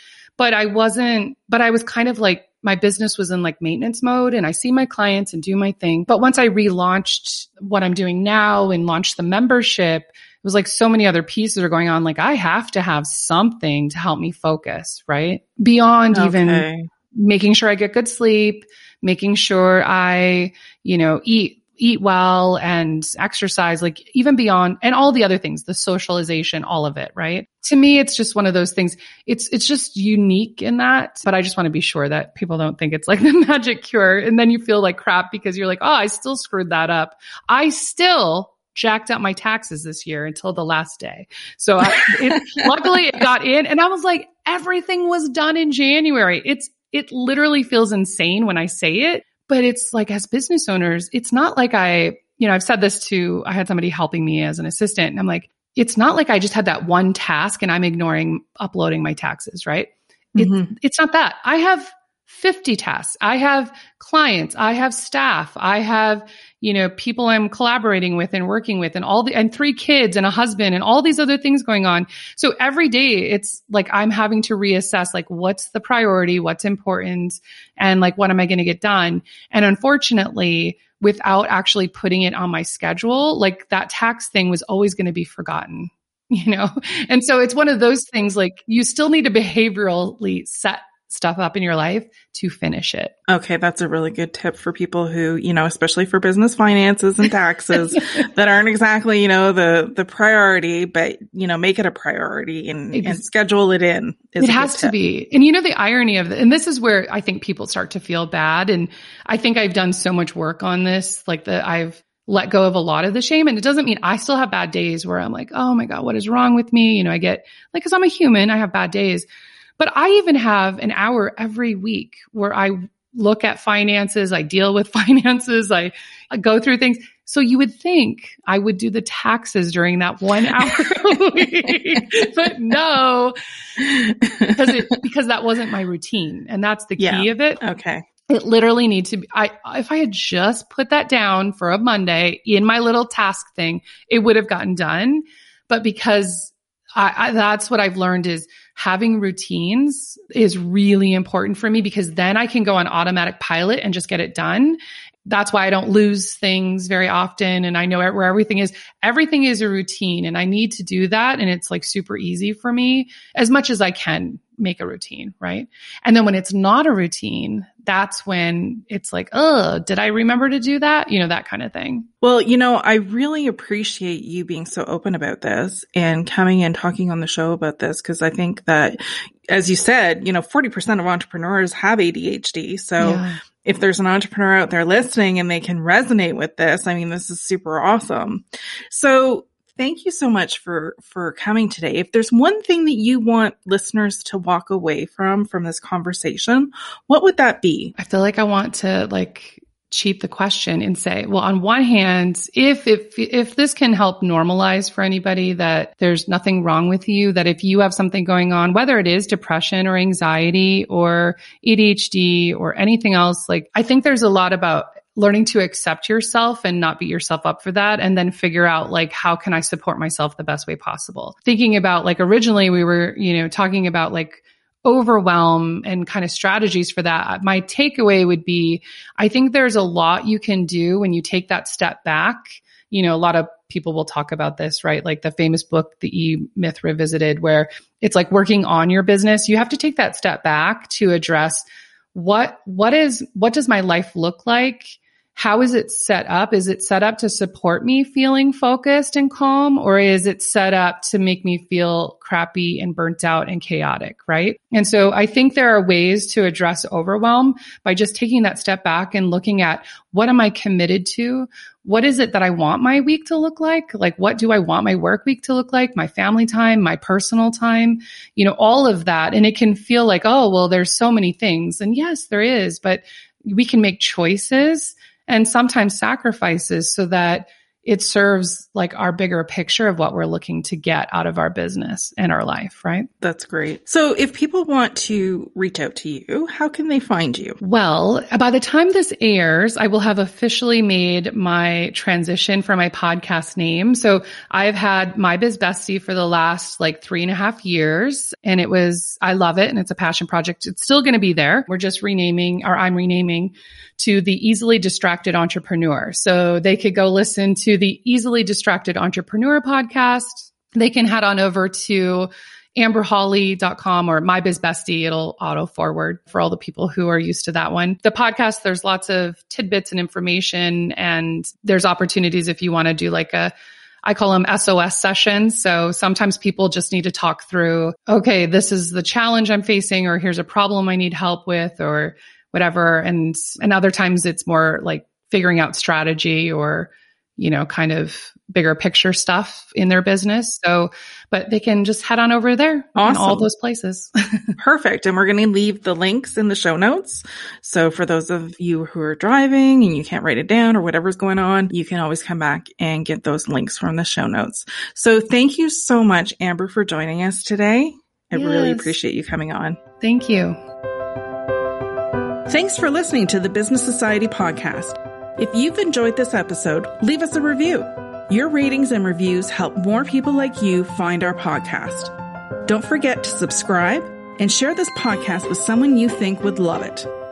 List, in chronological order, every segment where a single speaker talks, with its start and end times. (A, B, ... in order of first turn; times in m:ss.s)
0:00.4-1:33.1 A
0:16.1-0:16.9 B
0:41.9-0:43.0 B
1:00.4-1:00.7 B
1:33.3-1:44.9 B
1:42.9-1:43.2 A
1:44.4-2:13.3 A
2:10.7-2:11.0 B
2:13.8-2:15.0 B
2:14.6-2:17.6 A
2:17.0-2:18.0 B
2:18.3-2:52.1 A
2:52.2-3:17.9 B
3:03.0-3:03.4 A
3:18.0-4:43.1 A
4:43.2-4:47.6 B
4:47.6-5:23.5 A
5:24.0-5:44.1 A
5:43.0-5:43.5 B
5:44.6-5:59.8 B
5:58.3-5:59.0 A
6:00.0-6:00.6 A
6:02.5-6:12.1 B
6:12.6-6:17.1 B